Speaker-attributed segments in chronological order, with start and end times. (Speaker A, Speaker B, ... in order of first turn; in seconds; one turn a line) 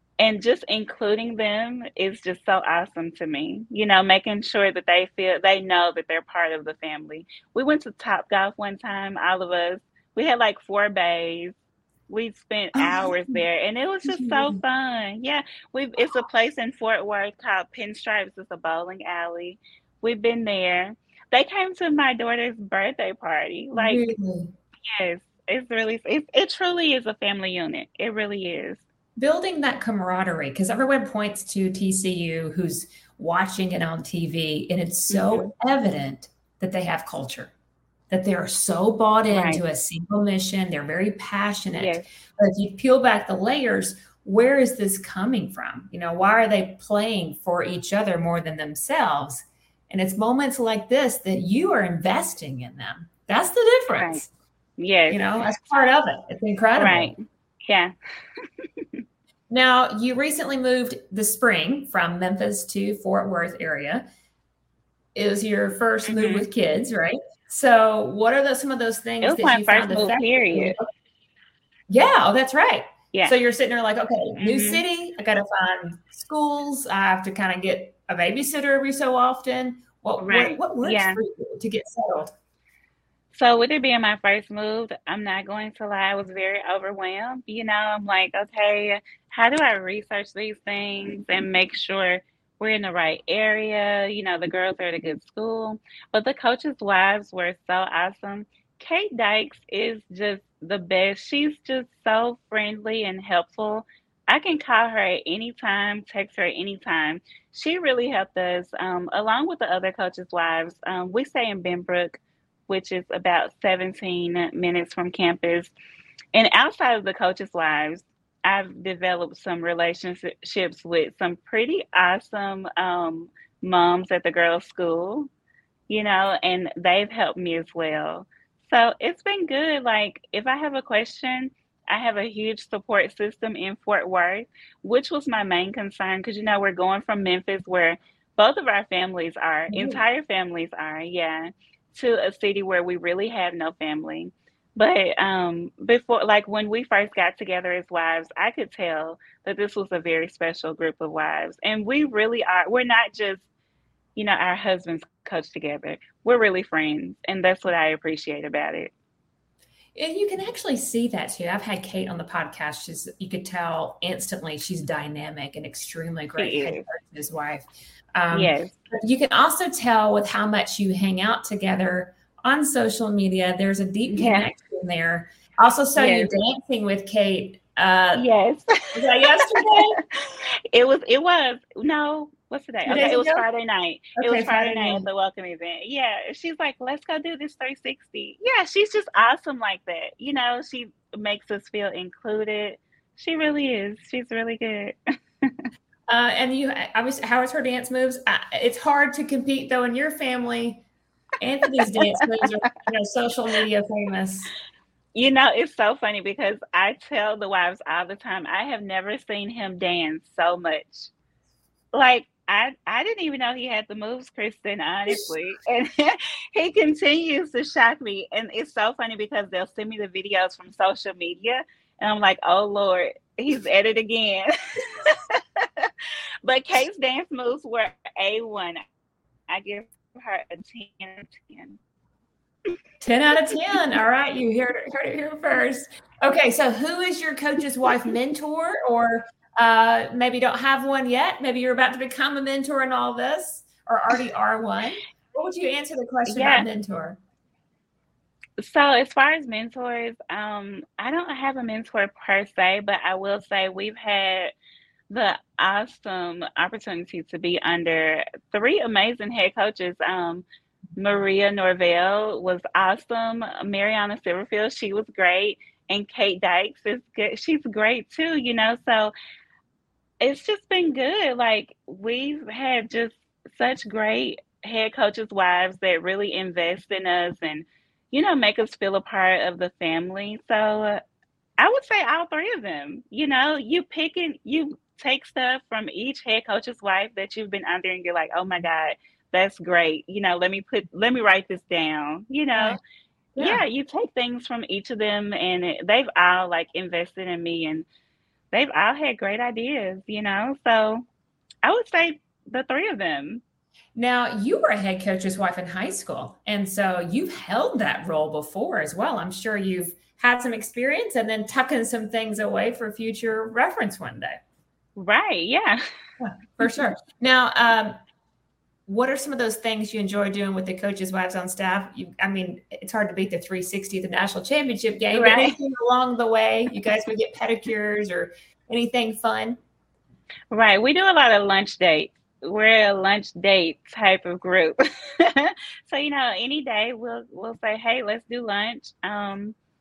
Speaker A: 0.2-11.5
Speaker A: 12.1-24.1
Speaker B: 12.8-13.4
Speaker B: 14.1-14.6
Speaker B: 23.8-24.5
Speaker A: 24.9-28.8
Speaker B: 29.2-37.5
Speaker A: 35.1-35.5
Speaker B: 38.1-54.3
Speaker A: 39.3-39.6
Speaker A: 41.8-42.1
Speaker A: 54.0-54.2
Speaker A: 54.8-55.3
Speaker B: 55.1-57.1
Speaker A: 56.8-57.9
Speaker A: 58.6-59.0
Speaker B: 59.5-64.1
Speaker B: 65.2-70.9
Speaker A: 66.1-66.5
Speaker A: 69.2-70.8
Speaker B: 71.9-82.3
Speaker A: 74.4-74.8
Speaker A: 80.2-81.2
Speaker A: 83.3-115.7
Speaker A: 116.3-125.3
Speaker A: 125.9-153.4
Speaker B: 139.7-140.0
Speaker A: 154.2-158.9
Speaker B: 159.9-178.2
Speaker A: 166.4-166.8
Speaker A: 168.3-168.7
Speaker A: 174.1-174.5
Speaker A: 176.0-176.3
Speaker A: 178.1-195.6
Speaker B: 178.9-180.0
Speaker B: 182.9-183.4
Speaker B: 184.2-185.1
Speaker B: 196.1-200.8
Speaker B: 201.4-204.5
Speaker A: 201.9-202.2
Speaker A: 205.2-211.1
Speaker A: 211.9-225.9
Speaker A: 226.4-228.8
Speaker A: 229.5-231.8
Speaker B: 233.0-247.2
Speaker A: 246.3-246.7
Speaker A: 248.6-254.5
Speaker A: 255.1-260.4
Speaker A: 261.0-269.1
Speaker A: 270.2-281.0
Speaker A: 281.6-292.8
Speaker B: 293.4-293.6
Speaker A: 293.4-297.9
Speaker A: 298.5-301.1
Speaker A: 301.6-303.4
Speaker B: 303.9-314.4
Speaker A: 315.0-315.8
Speaker B: 316.2-318.0
Speaker B: 318.9-329.6
Speaker A: 325.1-325.6
Speaker A: 330.5-339.6